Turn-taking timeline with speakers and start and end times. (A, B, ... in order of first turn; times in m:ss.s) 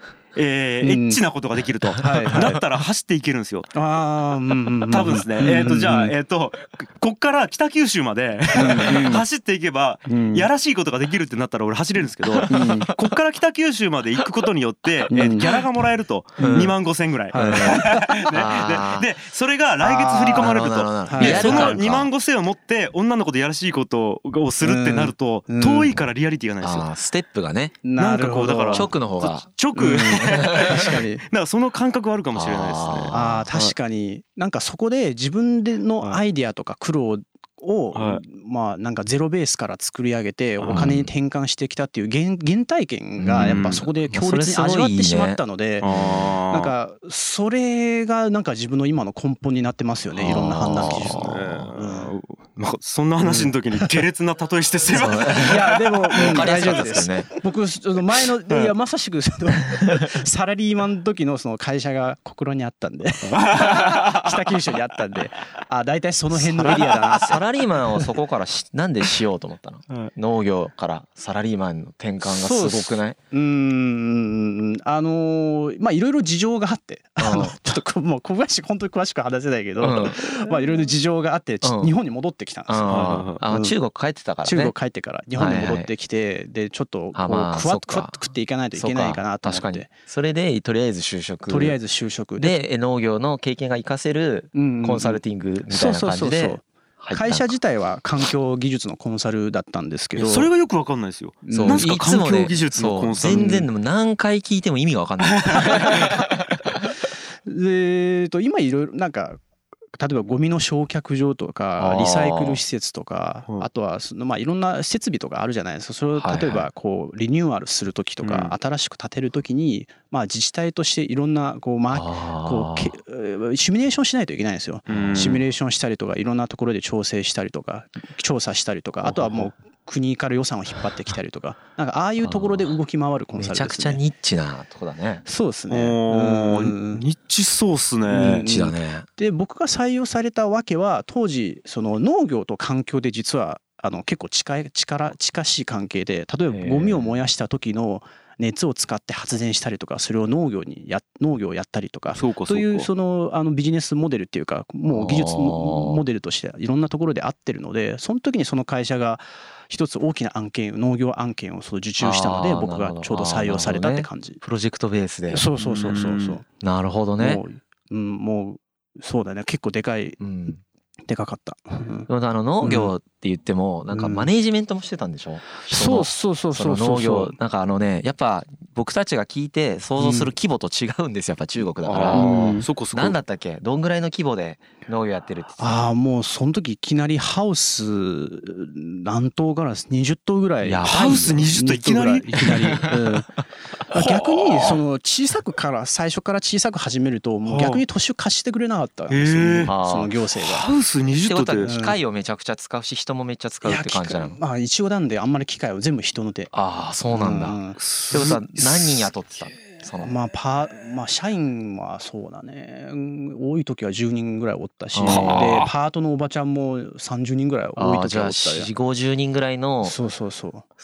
0:00.3-0:03.7 A
0:00.8-0:01.2 B
0:02.0-0:02.6 B
0:03.7-0:06.1 B
0:04.9-0:26.9 A
0:08.5-0:09.2 B
0:10.1-0:10.5 B
0:12.2-0:12.7 C
0:12.5-0:13.2 B
0:15.1-0:15.5 B
0:16.4-0:16.7 B
0:16.4-0:16.8 C
0:17.3-0:18.1 B
0:17.4-0:19.1 C
0:19.8-0:22.0 B
0:20.4-0:22.1 C
0:24.6-0:26.0 B
0:26.6-0:27.8 C
0:27.8-0:28.9 B
0:28.0-0:33.7 A
0:28.7-0:29.4 C
0:29.7-0:31.2 B
0:30.6-0:30.9 C
0:32.3-0:33.5 C
0:33.1-0:45.9 B
0:37.9-0:38.2 A
0:40.6-0:40.9 A
0:40.7-0:41.1 C
0:43.2-0:46.3 C
0:43.4-0:43.8 A
0:45.8-0:46.7 A
0:46.5-0:52.1 B
0:50.2-0:51.6 C
0:50.3-0:57.1 A
0:53.2-0:54.0 B
0:54.9-0:57.3 C
0:55.3-1:07.5 B
1:03.4-1:04.4 A
1:06.3-1:13.2 C
1:12.2-1:23.8 B
1:17.2-1:17.8 C
1:19.8-1:20.8 C
1:21.6-1:21.9 C
1:22.7-1:24.7 C
1:22.9-1:23.4 A
1:24.4-1:29.9 B
1:25.3-1:25.9 C
1:27.1-1:28.2 C
1:28.7-1:31.8 C
1:31.5-1:32.6 B
1:32.4-1:37.5 C
1:34.5-1:40.5 B
1:40.1-1:43.7 A
1:41.4-1:41.9 B
1:41.5-1:46.8 C
1:45.4-1:46.0 A
1:47.4-1:49.4 B
1:49.9-2:14.0 B
1:51.8-1:52.6 C
1:56.1-1:56.7 C
1:58.2-1:58.6 A
2:01.9-2:03.0 C
2:04.9-2:05.4 A
2:04.9-2:05.4 C
2:09.0-2:09.5 C
2:12.2-2:12.7 C
2:13.4-2:15.2 C
2:15.2-2:17.0 B
2:15.7-2:18.4 A
2:18.1-2:44.4 B
2:18.2-2:19.0 C
2:26.5-2:27.2 C
2:32.1-2:32.9 A
2:34.9-2:36.0 C
2:42.0-2:45.5 C
2:45.3-2:46.4 B
2:45.6-2:46.4 A
2:46.6-2:47.4 C
2:47.2-2:50.2 B
2:50.2-2:50.6 C
2:51.1-2:52.1 B
2:52.1-3:05.8 C
2:52.6-2:52.9 B
2:53.9-2:54.3 B
2:55.6-2:57.4 B
3:00.0-3:00.3 B
3:01.8-3:03.2 A
3:02.1-3:02.6 B
3:05.6-3:13.4 B
3:10.6-3:11.6 C
3:10.8-3:12.8 A
3:12.4-3:13.2 C
3:13.9-3:20.6 B
3:13.9-3:14.8 A
3:17.4-3:17.8 A
3:19.1-3:19.7 A
3:19.6-3:20.1 C
3:20.3-3:21.7 A
3:21.1-3:24.4 C
3:21.6-3:22.0 B
3:23.6-3:26.5 B
3:26.5-3:30.1 C
3:27.1-3:27.8 B
3:27.8-3:29.1 A
3:30.0-3:38.7 B
3:34.9-3:35.7 C
3:35.0-3:35.7 A
3:37.8-3:40.0 C
3:39.8-3:40.7 B